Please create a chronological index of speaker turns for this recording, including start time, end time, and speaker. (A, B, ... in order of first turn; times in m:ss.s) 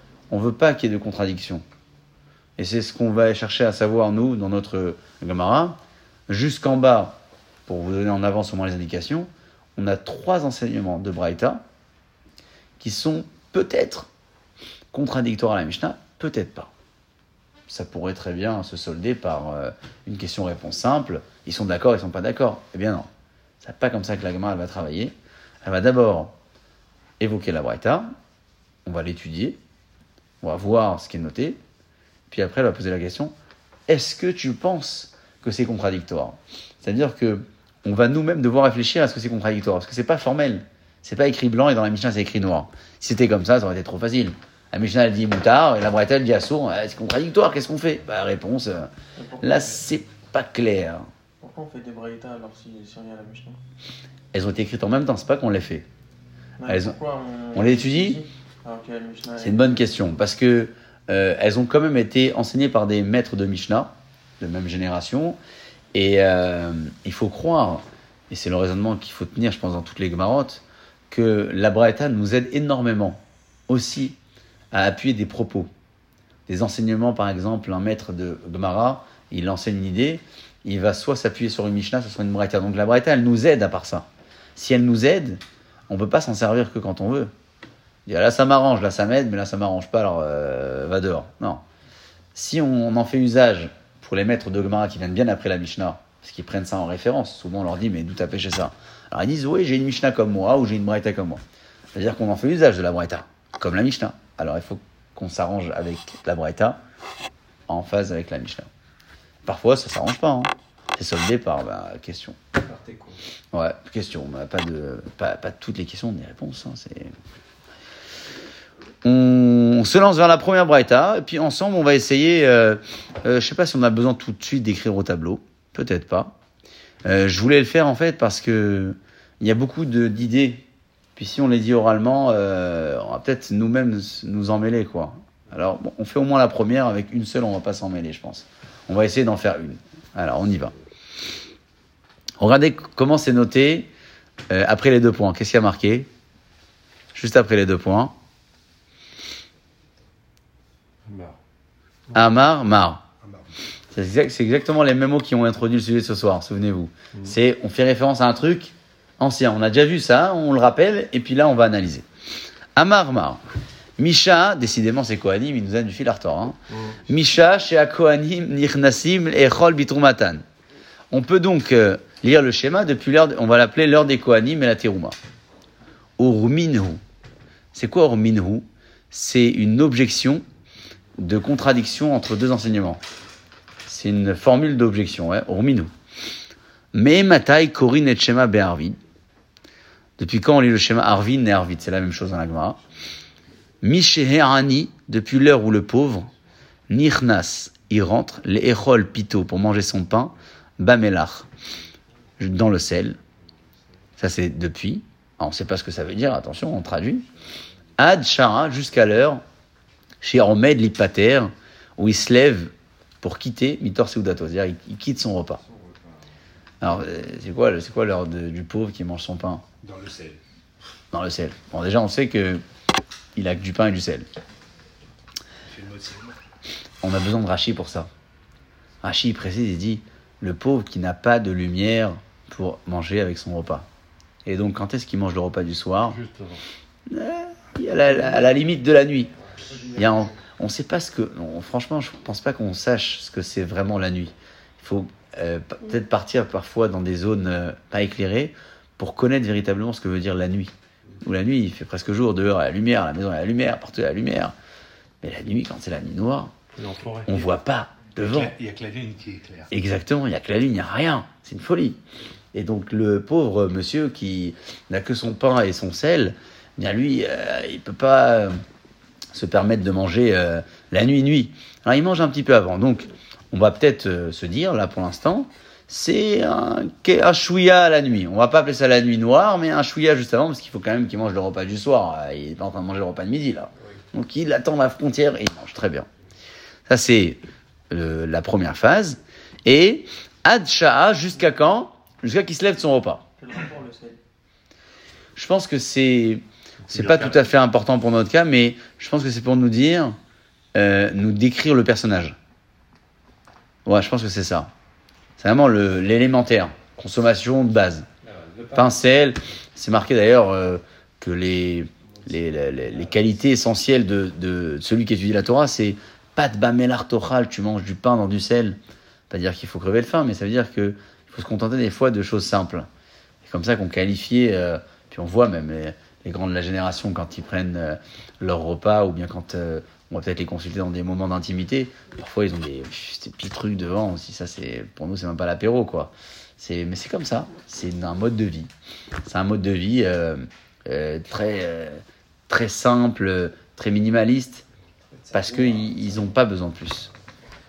0:00.3-0:01.6 A
0:02.6-0:11.6 A
0:12.8-0:14.1 A
0:14.9-0:16.7 A
0:17.7-0:23.1 A
0:23.6-0:26.3 A
0:27.2-0:28.1 A
0:28.8-0:29.6 A
0:30.4-0:31.6 A
0:32.3-0:33.3 A
0:33.9-0:51.1 A
0:49.2-0:49.8 B
0:51.4-0:53.6 B
0:54.3-0:55.9 A
0:56.6-0:59.8 B
0:56.7-0:57.0 A
0:57.5-0:58.2 A
0:59.4-1:05.4 A
1:05.9-1:14.2 A
1:14.7-1:15.7 A
1:16.5-1:27.3 A
1:28.1-1:31.6 A
1:32.4-1:41.4 A
1:41.9-1:46.8 A
1:47.7-1:48.7 A
1:49.4-1:52.4 A
1:52.5-1:53.2 C
1:53.5-1:57.1 A
1:59.0-2:06.4 A
2:07.0-2:10.6 A
2:11.2-2:20.7 A
2:22.4-2:23.9 A
2:24.5-2:26.1 A
2:27.1-2:28.2 A
2:31.1-2:31.4 D
2:32.1-2:33.0 A
2:33.2-2:33.6 E
2:33.9-2:42.0 A
2:42.8-2:43.4 A
2:44.0-2:50.4 A
2:46.7-2:47.0 D
2:51.1-2:55.2 A
2:56.2-2:57.0 A
2:57.7-3:00.4 A
3:01.2-3:03.0 A
3:03.9-3:05.9 A
3:06.9-3:09.0 A
3:10.2-3:12.8 A
3:13.8-3:16.3 A
3:16.9-3:21.5 A
3:22.4-3:23.2 A
3:24.2-3:27.3 A
3:28.0-3:29.4 A
3:30.2-3:35.6 A
3:35.6-3:36.2 C
3:36.8-3:39.6 A
3:39.8-3:40.4 E
3:41.1-3:42.6 A
3:43.4-3:44.3 A
3:45.6-3:46.4 E
3:47.0-3:48.1 A
3:49.0-3:53.9 A
3:54.5-3:56.2 A
3:56.1-3:56.6 D
3:57.1-3:59.3 A
3:59.5-3:59.9 C
3:59.9-4:10.7 A
4:11.2-4:14.5 A
4:15.2-4:16.5 A
4:16.8-4:17.5 D
4:17.3-4:18.5 A
4:18.2-4:19.7 E
4:19.7-4:22.0 A
4:22.5-4:28.6 A
4:29.3-4:46.1 A
4:46.9-4:53.3 A
4:53.4-4:54.2 B
4:55.4-5:00.2 A
4:56.9-4:57.5 D
5:00.7-5:02.4 A
5:03.8-5:04.7 A
5:05.4-5:08.1 A
5:08.2-5:09.0 C
5:08.8-5:18.8 A
5:12.2-5:13.3 C
5:19.3-5:22.9 A
5:23.5-5:38.7 A
5:39.2-5:44.6 A
5:45.1-5:46.1 C
5:45.3-5:47.1 A